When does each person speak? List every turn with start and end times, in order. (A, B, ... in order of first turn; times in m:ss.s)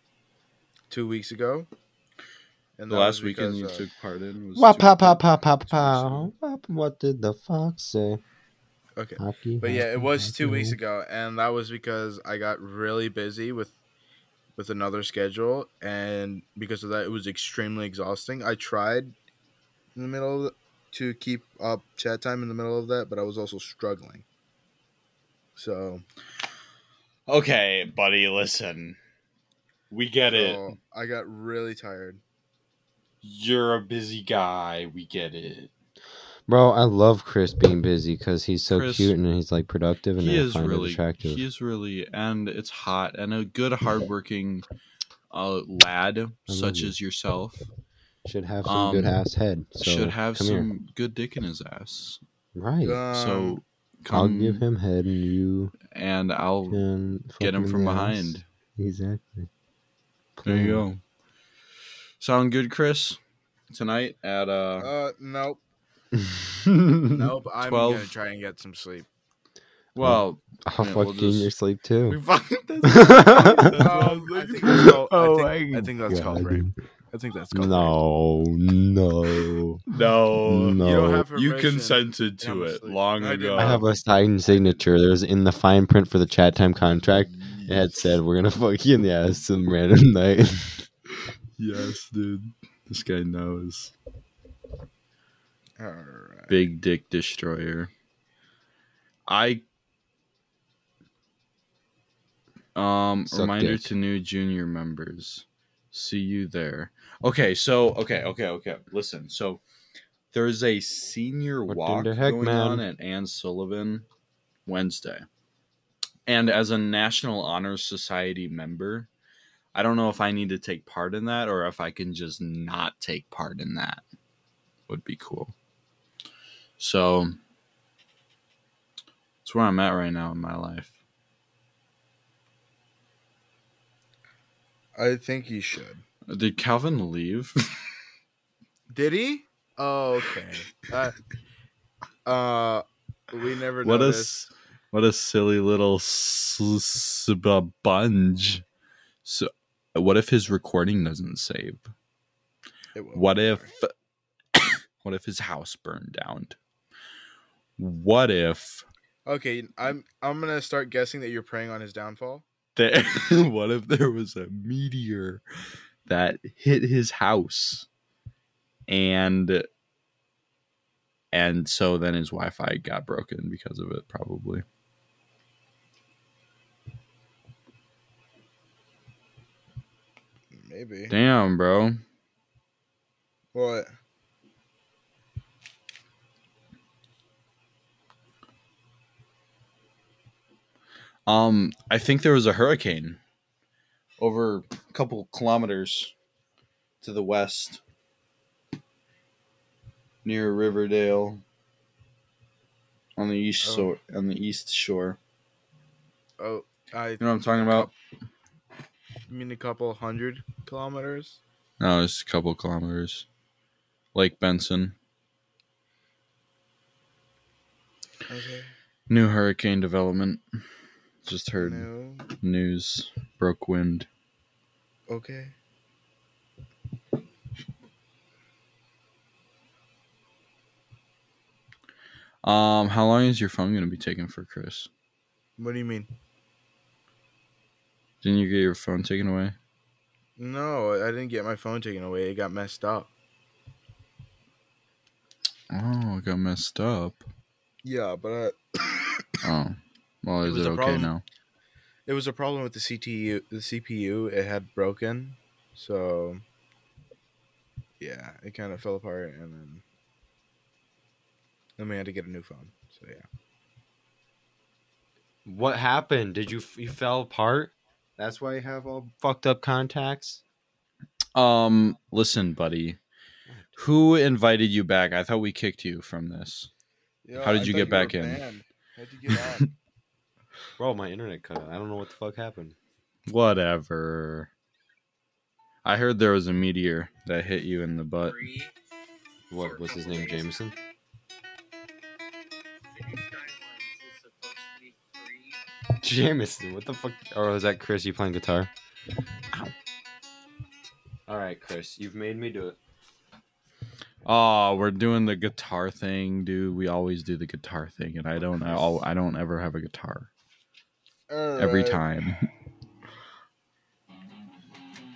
0:00.9-0:01.7 A
0:02.8-0:03.8 A
0:02.9-0:06.3 B
0:04.6-0:08.2 C
0:09.0-0:13.8 A
0:09.2-0:10.8 C
0:14.6-0:19.1 A
0:19.9-0:24.2 A
0:25.6-0:26.0 A
0:27.3-0:29.0 B
0:29.9-0:30.7 B
0:30.3-0:32.2 A
0:33.2-0:35.7 B
0:36.5-0:41.4 C
0:38.7-0:39.1 B
0:40.2-0:44.6 B
0:45.3-0:47.7 B
0:46.5-0:46.9 C
0:48.2-0:50.7 C
0:48.6-0:49.2 B
0:49.8-0:52.2 B
0:52.5-0:53.0 C
0:52.8-0:53.6 A
0:53.1-0:54.6 B
0:54.1-0:55.7 C
0:55.9-0:56.8 B
0:56.7-0:59.5 C
0:57.4-0:58.4 B
1:00.4-1:00.8 C
1:00.4-1:01.0 B
1:02.2-1:03.2 B
1:03.7-1:04.9 B
1:04.8-1:05.6 A
1:06.1-1:07.3 C
1:07.1-1:09.1 A
1:07.6-1:08.1 B
1:09.9-1:11.5 B
1:10.0-1:12.2 C
1:12.1-1:15.0 B
1:12.8-1:14.0 C
1:13.7-1:18.0 A
1:14.6-1:16.7 C
1:17.5-1:19.9 C
1:19.9-1:20.8 B
1:20.4-1:21.3 C
1:20.8-1:23.9 A
1:21.3-1:23.8 B
1:23.5-1:30.9 C
1:27.0-1:28.1 B
1:31.6-1:33.9 B
1:35.8-1:36.6 A
1:36.5-1:37.9 B
1:39.3-1:39.6 B
1:42.7-1:49.6 B
1:43.3-1:43.9 C
1:50.3-1:54.1 B
1:51.7-1:52.8 C
1:54.6-1:55.2 B
1:56.3-1:59.1 B
1:59.7-2:04.0 B
2:04.9-2:05.5 B
2:06.8-2:07.3 B
2:09.4-2:10.9 B
2:15.0-2:16.0 A
2:16.3-2:17.7 B
2:18.9-2:21.2 A
2:22.2-2:24.4 A
2:23.8-2:28.6 B
2:29.2-2:31.9 B
2:32.9-2:33.7 A
2:33.1-2:33.9 B
2:34.5-2:36.6 B
2:37.8-2:38.8 B
2:39.2-2:42.4 A
2:42.8-2:45.4 B
2:46.1-2:47.9 B
2:48.9-2:49.6 B
2:51.3-2:54.6 B
3:00.5-3:01.1 A
3:01.1-3:02.0 B
3:03.5-3:03.9 A
3:11.3-3:13.2 B
3:14.2-3:16.1 B
3:17.0-3:17.8 B
3:20.2-3:21.4 B
3:23.2-3:25.2 B
3:23.6-3:23.9 A
3:26.4-3:27.9 A
3:27.2-3:27.9 B
3:29.3-3:31.4 A
3:31.8-3:33.2 B
3:34.1-3:35.0 B
3:38.3-3:38.7 A
3:39.1-3:40.4 B
3:41.2-3:44.1 B
3:41.6-3:42.2 A
3:45.1-3:45.5 A
3:52.4-3:54.9 B
3:55.6-3:56.1 A
3:58.2-3:59.5 B
4:00.4-4:03.1 A
4:05.7-4:07.2 B
4:07.8-4:08.6 A
4:09.4-4:11.2 B
4:10.4-4:11.1 A
4:12.1-4:16.4 A
4:18.0-4:19.8 A
4:21.8-4:23.2 A
4:25.4-4:30.4 C
4:31.3-4:33.0 B
4:33.5-4:33.8 C
4:33.8-4:36.7 B
4:37.2-4:39.7 A
4:37.4-4:38.4 B
4:40.8-4:42.8 C
4:43.3-4:44.5 B
4:45.8-4:48.4 B
4:48.2-4:48.7 D
4:49.5-4:50.7 C
4:49.5-4:50.6 D
4:52.9-4:55.6 D
4:55.9-4:58.7 C
5:01.3-5:02.8 C
5:04.2-5:10.3 B
5:08.7-5:08.9 C
5:11.3-5:12.0 A
5:11.6-5:12.4 B